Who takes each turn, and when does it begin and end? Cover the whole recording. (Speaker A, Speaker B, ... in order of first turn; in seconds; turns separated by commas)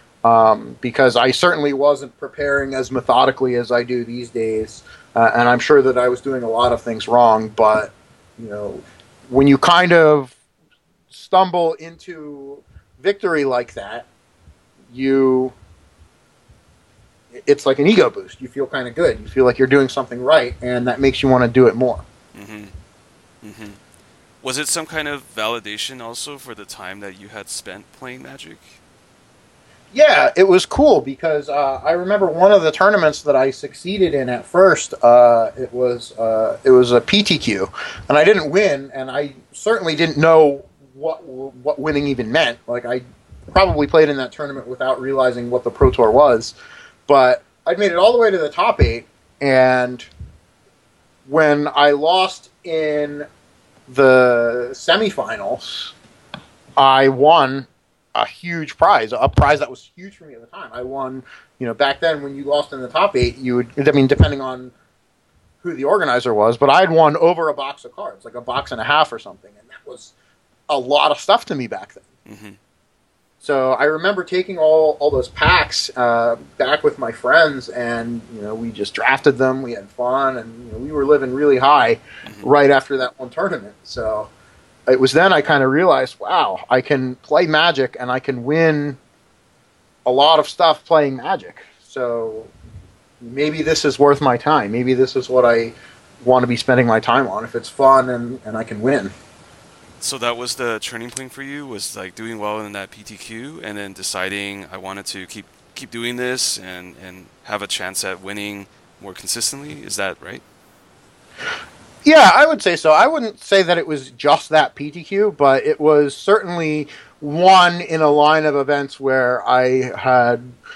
Speaker A: 0.2-10.4, Speaker A: 11.1-14.1, Speaker A: 14.9-15.5, Speaker A: 17.3-22.0, Speaker B: 22.4-22.7, Speaker B: 23.4-23.8, Speaker B: 24.4-28.8, Speaker A: 29.9-46.5, Speaker A: 47.1-50.0, Speaker A: 51.3-53.3, Speaker A: 53.9-56.0, Speaker A: 56.8-64.7, Speaker A: 65.6-70.1, Speaker A: 70.7-72.0, Speaker B: 72.3-72.6, Speaker A: 73.4-84.3, Speaker A: 84.9-89.0, Speaker A: 90.1-92.5, Speaker A: 93.2-99.1, Speaker B: 100.0-110.4, Speaker A: 112.0-120.4